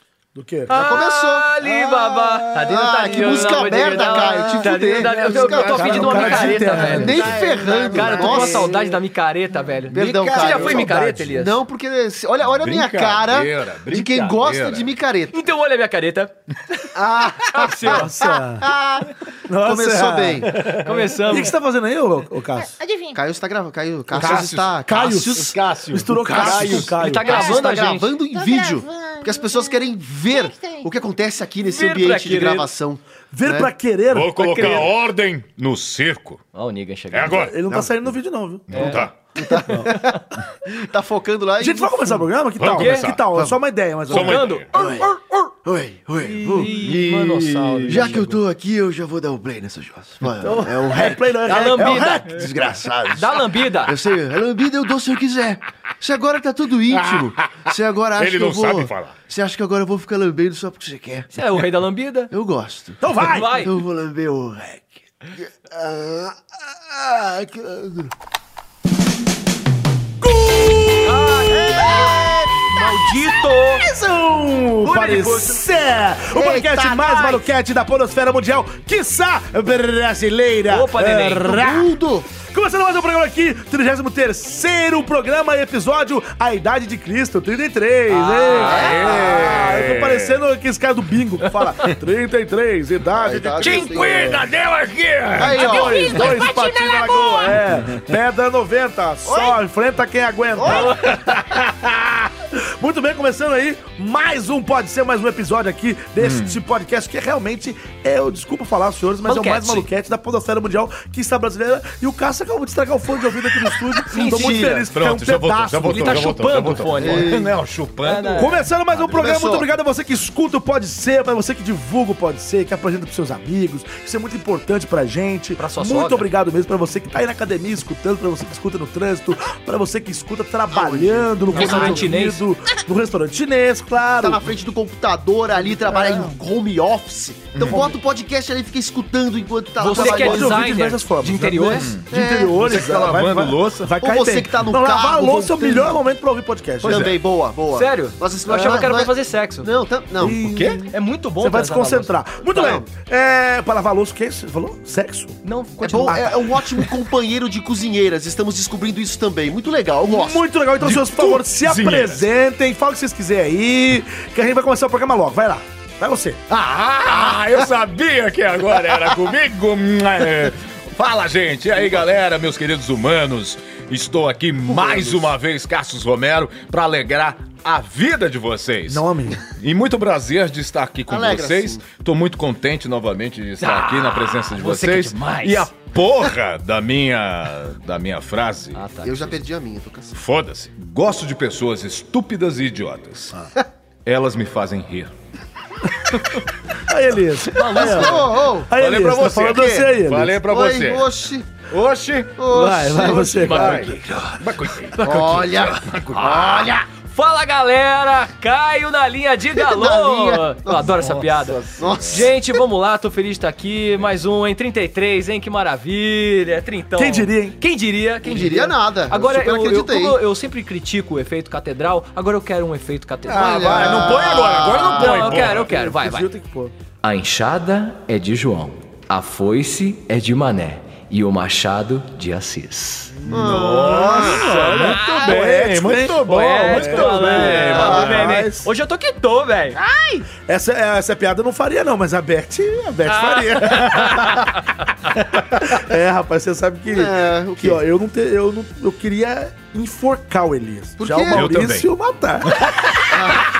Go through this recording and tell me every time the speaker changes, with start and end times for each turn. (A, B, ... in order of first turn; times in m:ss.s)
0:00.3-0:00.8 A
0:00.7-0:11.6 B
0:00.7-0:01.5 C
0:01.6-0:02.5 D
0:02.6-0:06.3 C
0:03.1-0:08.8 D
0:05.8-0:07.3 A
0:06.9-0:08.9 C
0:09.9-0:11.2 D
0:09.9-0:15.4 C
0:12.5-0:14.9 D
0:15.3-0:16.9 B
0:16.9-0:20.6 C
0:17.5-0:18.1 B
0:17.8-0:18.7 A
0:19.5-0:20.6 A
0:20.5-0:21.0 D
0:20.8-0:21.5 B
0:21.3-0:22.7 A
0:22.6-0:23.2 E
0:23.1-0:33.7 C
0:24.1-0:24.7 D
0:24.2-0:27.4 A
0:25.3-0:26.9 D
0:26.9-0:28.1 B
0:27.0-0:27.7 E
0:28.2-0:30.9 E
0:31.6-0:32.7 B
0:33.3-0:34.9 A
0:34.1-0:36.4 D
0:36.5-0:37.4 B
0:37.1-0:37.5 D
0:37.2-0:39.0 A
0:38.7-0:39.1 D
0:38.7-0:39.1 B
0:39.4-0:42.2 C
0:39.7-0:40.0 A
0:41.6-0:44.5 A
0:42.6-0:43.2 D
0:42.7-0:43.1 B
0:44.1-0:44.7 D
0:44.1-0:45.1 B
0:44.7-0:45.1 C
0:45.6-0:46.5 C
0:46.2-0:48.3 B
0:46.4-0:46.7 A
0:46.6-0:48.4 D
0:47.9-1:01.3 C
0:50.4-0:52.4 A
0:51.4-0:52.3 B
0:53.1-0:54.0 B
0:56.9-0:59.1 D
1:01.3-1:02.3 B
1:02.3-1:08.1 C
1:03.0-1:03.6 A
1:03.2-1:03.7 B
1:10.2-1:12.2 A
1:11.0-1:12.1 B
1:11.5-1:12.7 C
1:12.7-1:13.9 B
1:13.8-1:34.4 A
1:14.8-1:15.6 B
1:16.3-1:17.4 C
1:20.7-1:21.7 B
1:21.6-1:22.3 C
1:28.1-1:28.9 B
1:28.5-1:30.4 D
1:28.6-1:29.8 C
1:33.1-1:34.4 C
1:33.6-1:35.6 D
1:35.4-1:36.5 C
1:35.5-1:41.3 A
1:35.6-1:37.6 E
1:39.2-1:39.6 C
1:40.6-1:41.4 C
1:41.4-1:41.7 D
1:42.5-1:56.3 A
1:46.2-1:46.6 D
1:49.2-1:49.9 B
1:54.1-1:54.8 B
1:54.1-1:54.9 C
1:54.9-1:58.5 D
1:55.9-1:57.4 B
1:57.0-1:57.5 C
1:58.0-1:58.7 B
1:58.3-2:14.5 A
1:58.9-1:59.6 C
2:05.6-2:06.3 B
2:10.7-2:12.1 C
2:11.5-2:12.4 B
2:14.2-2:20.6 C
2:15.6-2:16.4 A
2:17.5-2:17.9 D
2:19.8-2:21.9 B
2:19.8-2:27.1 A
2:21.7-2:23.9 D
2:22.1-2:22.6 C
2:24.0-2:26.0 C
2:26.8-2:27.2 D
2:26.8-2:30.4 C
2:27.7-2:29.7 B
2:30.2-2:35.4 A
2:30.2-2:30.8 D
2:30.9-2:32.1 B
2:32.5-2:32.9 C
2:35.4-2:36.3 B
2:35.8-2:40.4 C
2:35.9-2:36.3 A
2:40.1-2:46.4 A
2:40.8-2:42.2 D
2:46.5-3:08.8 D
2:54.7-2:55.3 C
2:58.9-2:59.4 A
3:01.1-3:01.8 C
3:03.6-3:05.7 B
3:08.7-3:09.4 B
3:09.0-3:10.2 C
3:10.1-3:13.4 D
3:14.0-3:15.1 D
3:16.8-3:20.4 A
3:17.5-3:18.3 B
3:17.8-3:18.7 C
3:18.8-3:21.1 D
3:19.4-3:19.9 C
3:20.4-3:21.5 C
3:21.7-3:22.4 D
3:22.4-3:23.8 C
3:22.5-3:23.9 A
3:23.1-3:25.5 B
3:23.5-3:26.8 D
3:25.0-3:26.8 C
3:26.6-3:44.1 B
3:29.5-3:31.1 C
3:31.1-3:32.3 D
3:31.7-3:32.6 C
3:37.0-3:37.6 A
3:38.2-3:40.2 C
3:43.3-3:45.7 D
3:43.3-3:45.2 C
3:44.7-3:46.3 B
3:45.3-3:46.7 A
3:47.0-3:53.1 B
3:53.2-3:58.3 D
3:53.3-3:54.6 C
3:54.1-3:58.7 A
3:54.5-3:55.4 B
3:56.2-3:59.8 B
3:57.8-3:58.4 C
3:59.8-4:00.3 E
4:00.4-4:04.5 A
4:03.1-4:03.6 B
4:03.6-4:04.4 D
4:05.3-4:13.4 A
4:06.9-4:07.8 C
4:11.0-4:11.4 C
4:11.3-4:11.9 D
4:13.1-4:13.5 C